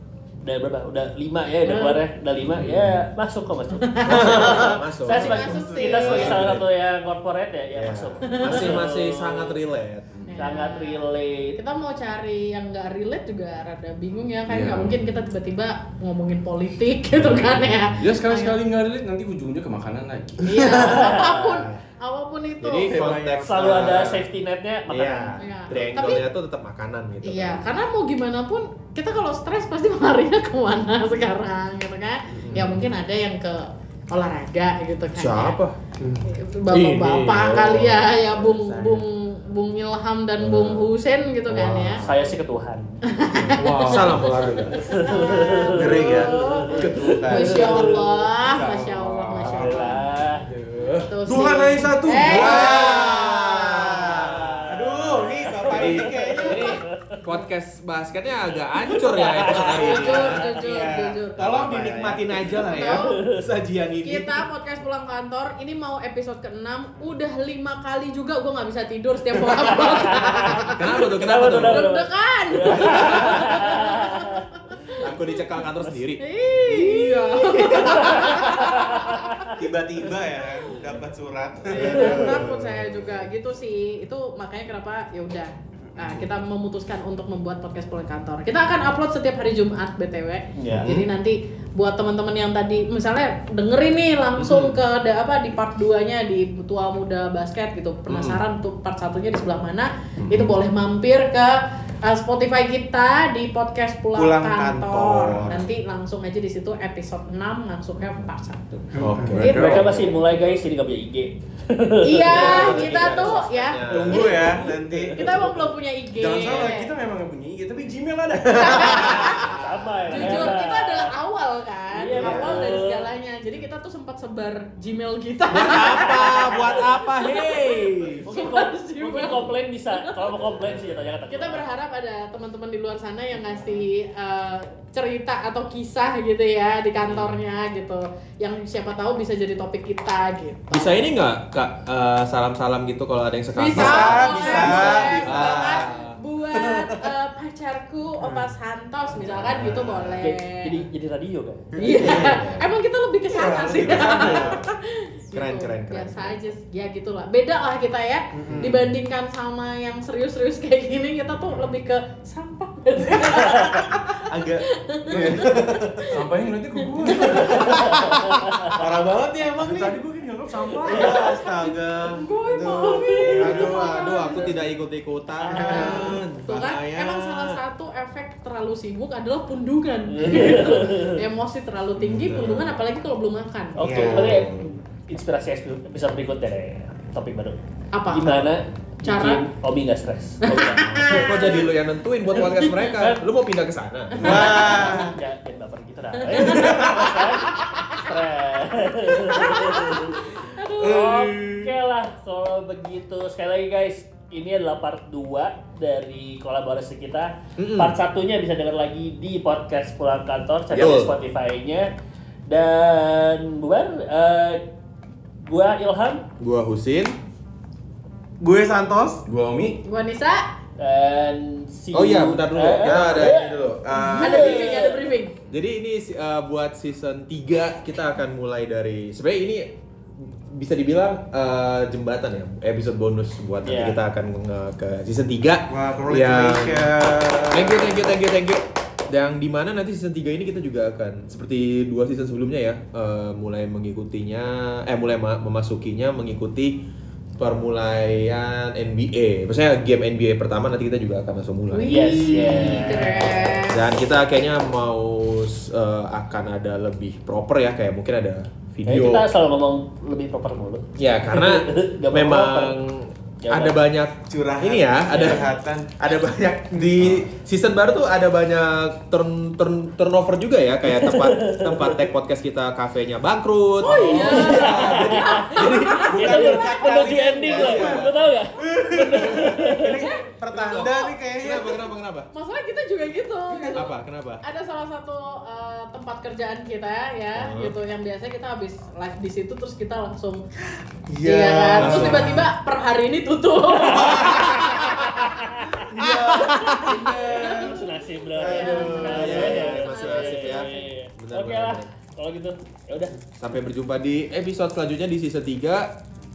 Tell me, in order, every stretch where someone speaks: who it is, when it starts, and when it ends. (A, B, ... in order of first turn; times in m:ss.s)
0:00.4-0:09.6 A
0:01.6-0:02.0 B
0:02.5-0:03.0 C
0:03.8-0:06.4 B
0:04.0-0:06.6 C
0:05.4-0:06.3 D
0:07.7-0:10.1 C
0:08.3-0:08.7 B
0:10.1-0:10.4 E
0:10.3-0:18.6 B
0:10.4-0:11.6 A
0:14.4-0:15.0 E
0:17.2-0:20.8 E
0:17.3-0:17.9 C
0:20.4-0:23.0 B
0:20.6-0:21.6 A
0:21.4-0:21.8 C
0:22.6-0:24.3 C
0:22.9-0:24.1 D
0:23.0-0:23.4 E
0:23.4-0:25.4 A
0:24.9-0:27.7 C
0:25.4-0:26.2 B
0:27.2-0:35.6 B
0:32.5-0:32.8 C
0:35.1-0:35.8 C
0:36.0-0:36.3 D
0:36.2-0:42.0 B
0:36.7-0:38.1 C
0:38.2-0:39.1 D
0:40.4-0:40.8 C
0:41.5-0:42.0 C
0:41.9-0:42.8 A
0:43.0-0:50.0 B
0:43.3-0:44.2 E
0:43.8-0:44.8 C
0:44.7-0:47.8 A
0:45.6-0:48.2 D
0:46.7-0:52.9 E
0:49.3-0:49.6 D
0:49.4-0:50.5 A
0:51.0-0:53.8 B
0:52.2-0:53.3 D
0:52.3-0:54.3 C
0:53.9-0:56.8 D
0:54.2-0:57.2 A
0:55.7-0:56.1 C
0:56.5-0:56.8 B
0:57.2-1:00.6 C
0:58.8-1:00.5 A
0:59.7-1:01.4 B
1:00.5-1:04.4 D
1:01.4-1:02.3 C
1:02.6-1:03.2 B
1:02.8-1:03.4 A
1:04.0-1:10.9 B
1:09.5-1:09.8 D
1:09.7-1:14.4 A
1:10.8-1:11.8 C
1:11.4-1:15.2 B
1:15.0-1:16.2 C
1:16.2-1:19.5 B
1:16.8-1:17.8 D
1:17.6-1:18.4 C
1:17.8-1:19.5 A
1:19.6-1:22.4 D
1:21.7-1:49.9 B
1:21.7-1:23.1 C
1:30.6-1:31.0 A
1:38.1-1:38.4 C
1:44.1-1:45.7 D
1:45.2-1:45.5 C
1:49.0-1:49.9 C
1:49.0-1:50.1 E
1:49.0-1:49.5 D
1:49.4-1:53.4 A
1:52.0-1:56.9 B
1:52.2-1:54.4 C
1:53.9-1:55.6 D
1:54.0-1:55.5 E
1:56.1-1:59.0 E
1:58.5-1:59.3 D
1:58.5-2:10.5 B
1:58.8-2:01.1 A
2:00.1-2:00.5 C
2:01.9-2:03.0 A
2:02.1-2:02.8 C
2:05.5-2:08.3 C
2:08.2-2:11.6 A
2:11.2-2:21.1 B
2:20.7-2:26.2 C
2:23.5-2:30.8 B
2:23.7-2:25.8 D
2:26.6-2:27.0 D
2:28.2-2:28.5 D
2:29.3-2:29.9 D
2:29.3-2:30.1 C
2:30.2-2:32.1 A
2:31.8-2:46.2 B
2:31.9-2:32.2 D
2:31.9-2:32.7 C
2:33.3-2:34.7 D
2:33.6-2:34.2 E
2:33.8-2:34.5 C
2:35.3-2:36.5 C
2:38.3-2:38.9 D
2:43.4-2:46.2 D
2:45.1-2:47.9 E
2:47.0-2:47.4 B
2:47.3-2:47.5 D
2:47.4-2:48.8 A
2:48.7-2:50.0 D
2:49.6-2:51.3 E
2:50.8-2:54.6 D
2:50.8-2:54.6 B
2:53.4-2:57.6 C
2:55.5-3:04.3 B
2:55.5-2:56.2 D
3:00.1-3:01.2 A
3:02.0-3:02.7 C
3:03.8-3:11.5 A
3:03.8-3:04.4 D
3:04.0-3:04.6 C
3:07.9-3:08.5 B
3:09.0-3:09.4 B
3:10.4-3:11.7 B
3:11.0-3:14.6 C
3:12.5-3:12.8 B
3:12.6-3:13.2 A
3:14.2-3:14.8 B
3:14.2-3:15.2 D
3:14.4-3:31.9 A
3:16.2-3:16.9 B
3:16.5-3:17.1 D
3:19.2-3:21.4 B
3:27.6-3:28.0 C
3:30.7-3:31.0 E
3:30.7-3:31.1 C
3:32.5-3:34.6 A
3:35.4-3:36.2 A
3:36.4-3:37.2 C
3:38.4-3:39.2 D
3:39.2-3:39.8 E
3:39.8-3:40.4 B
3:40.8-3:45.1 A
3:41.9-3:44.6 C
3:44.2-3:45.3 B
3:45.5-3:56.9 C
3:53.6-3:54.0 A
3:55.7-3:58.1 D
3:57.5-4:06.8 C
4:07.4-4:12.9 C
4:11.7-4:13.9 B
4:11.8-4:13.6 A
4:13.7-4:19.2 C
4:18.8-4:22.8 A
4:21.0-4:25.5 C
4:23.4-4:23.8 A
4:24.3-4:26.1 D
4:25.1-4:25.4 A
4:26.0-4:36.1 C
4:26.7-4:27.2 D
4:30.9-4:31.9 A
4:33.8-4:37.1 B
4:33.9-4:41.8 D
4:33.9-4:39.9 A
4:37.4-4:38.1 C
4:40.5-4:42.3 C
4:40.7-4:41.1 B
4:42.3-4:43.9 B
4:43.5-4:43.8 D
4:43.7-4:44.4 C
4:44.4-4:50.4 B
4:47.4-4:47.7 C
4:51.1-4:52.5 D
4:51.2-4:55.0 B
4:51.8-4:52.4 C
4:53.8-4:55.8 A
4:54.1-4:54.4 D
4:54.4-4:54.9 C
4:55.8-4:57.8 D
4:56.0-4:57.3 C
4:56.5-5:00.8 B
4:57.3-5:03.2 A
4:58.4-4:59.4 D
4:58.5-5:01.9 C
5:03.4-5:06.0 C